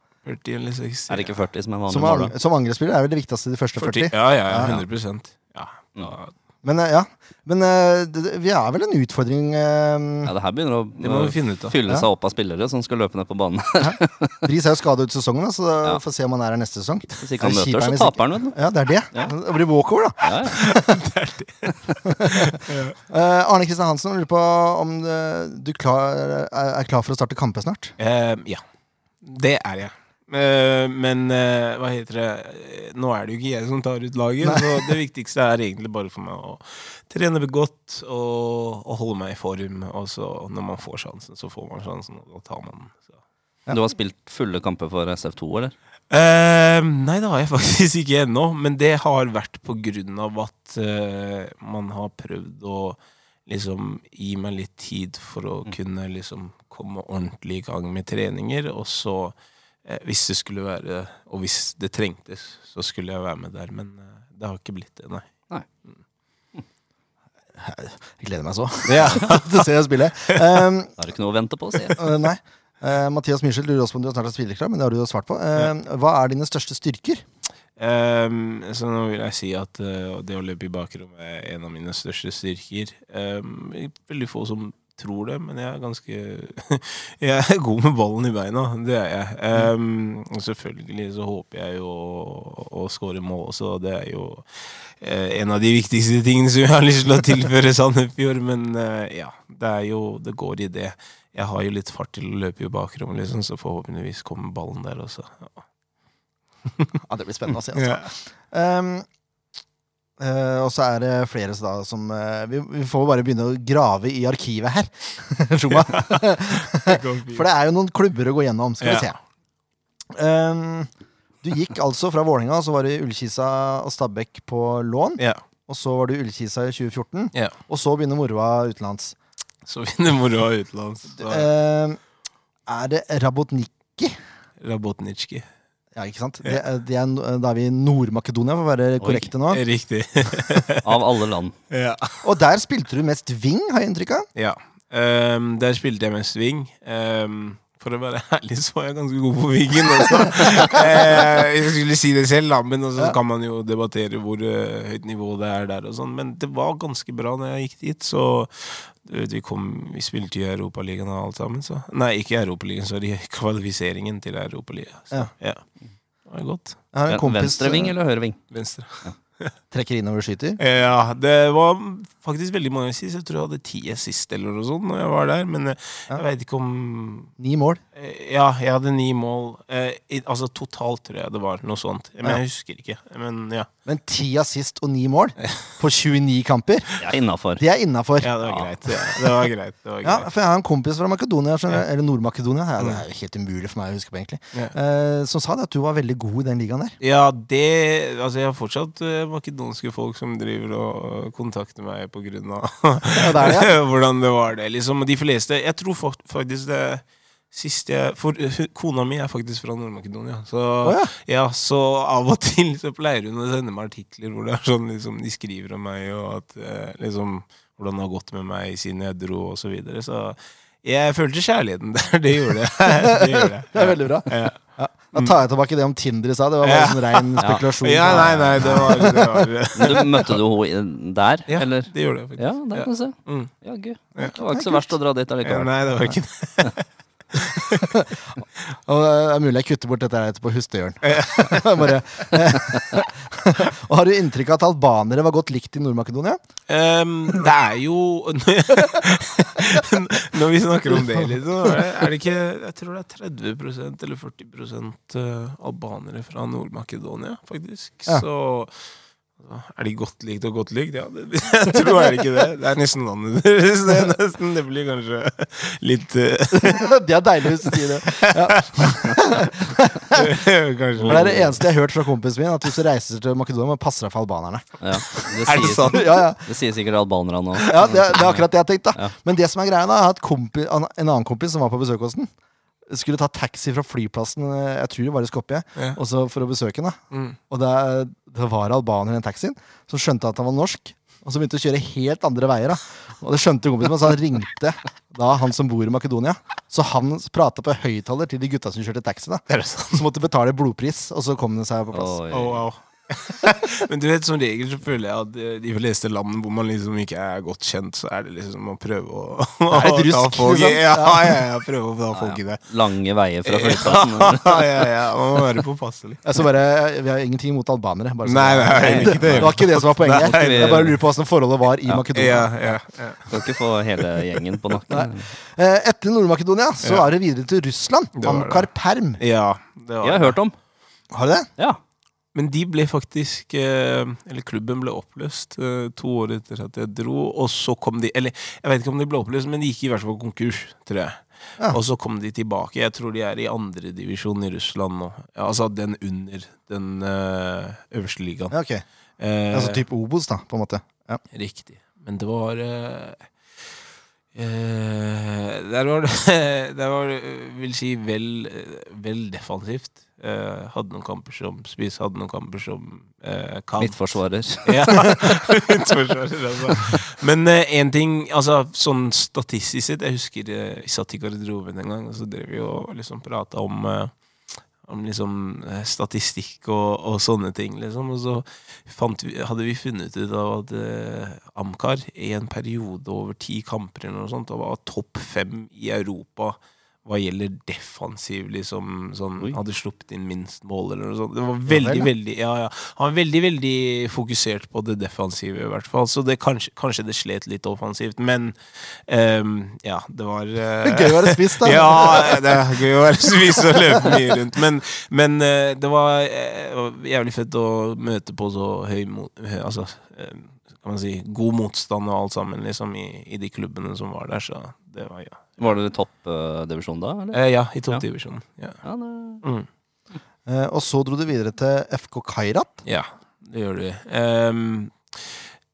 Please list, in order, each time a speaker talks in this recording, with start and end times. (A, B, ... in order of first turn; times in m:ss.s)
0:00.2-0:01.4 A
0:01.1-0:02.3 B
0:01.9-0:04.8 C
0:03.8-0:06.3 A
0:06.6-0:10.3 C
0:10.2-0:14.5 B
0:11.0-0:11.8 A
0:13.8-0:21.0 C
0:17.2-0:18.6 B
0:20.2-0:20.6 B
0:20.4-0:23.0 A
0:21.7-0:21.9 B
0:22.0-0:27.9 C
0:28.0-0:28.6 A
0:29.2-0:43.2 A
0:34.4-0:34.8 C
0:43.7-0:45.7 B
0:46.1-1:05.3 A
1:07.6-1:10.9 C
1:08.8-1:09.7 A
1:10.3-1:10.6 A
1:11.0-1:12.0 B
1:12.0-1:17.2 C
1:17.8-1:45.6 A
1:47.0-1:49.0 C
1:47.7-1:48.1 A
1:50.2-1:59.2 C
1:55.7-1:57.4 A
1:58.8-1:59.1 A
2:00.1-2:00.9 C
2:01.4-2:09.2 C
2:09.6-2:11.4 A
2:11.2-2:12.0 C
2:12.7-2:14.2 C
2:14.6-2:15.5 A
2:16.0-2:19.6 C
2:19.0-2:19.3 B
2:19.5-2:21.0 A
2:20.8-2:21.6 B
2:21.7-2:22.2 A
2:22.2-2:24.3 C
2:24.3-2:45.6 A
2:46.3-2:46.8 A
2:46.9-2:47.9 C
2:47.1-2:48.4 B
2:48.5-2:49.5 A
2:49.7-2:50.6 C
2:50.6-2:57.3 A
2:57.4-2:57.8 C
2:57.9-3:03.7 A
3:03.8-3:06.9 C
3:07.0-3:07.6 B
3:07.6-3:08.3 C
3:08.2-3:10.3 A
3:08.4-3:08.7 B
3:10.0-3:17.0 C
3:17.0-3:45.4 A
3:23.1-3:23.7 C
3:30.8-3:31.1 C
3:43.0-3:50.0 C
3:46.6-3:50.3 A
3:47.4-3:49.0 B
3:49.8-3:55.7 B
3:51.5-3:53.5 A
3:54.5-3:54.9 C
3:55.4-3:57.9 A
3:57.8-3:58.1 C
3:58.9-4:06.4 C
4:01.0-4:01.6 A
4:06.7-4:26.9 A
4:26.5-4:30.4 C
4:27.6-4:29.2 A
4:30.1-4:31.5 A
4:31.0-4:36.4 C
4:31.0-4:31.5 B
4:34.8-4:38.4 B
4:35.4-4:36.1 A
4:37.6-4:42.3 C
4:42.9-5:02.2 C
4:47.1-4:47.4 A
4:59.5-5:00.0 A
5:01.9-5:02.6 B
5:02.3-5:12.7 A
5:09.7-5:11.4 C
5:12.1-5:14.6 B
5:13.4-5:16.2 A
5:16.2-5:22.5 C
5:18.2-5:21.0 A
5:18.7-5:21.0 B
5:22.1-5:24.2 A
5:23.3-5:25.3 B
5:24.9-5:29.2 C
5:26.8-5:27.1 A
5:28.2-5:30.4 A
5:30.0-5:30.6 B
5:31.1-5:31.5 C
5:32.3-5:48.6 A
5:48.5-5:48.8 C
5:49.2-5:49.8 A
5:49.5-5:51.2 C
5:51.3-5:53.3 A
5:54.3-6:55.7 A
6:03.8-6:05.3 B
6:31.7-6:32.1 C
6:40.8-6:42.7 C
6:43.6-6:44.2 C
6:55.6-6:58.0 B
6:57.3-6:58.8 A
6:58.8-6:59.4 B
6:59.4-6:59.7 A
7:00.4-7:02.8 C
7:02.8-7:05.5 A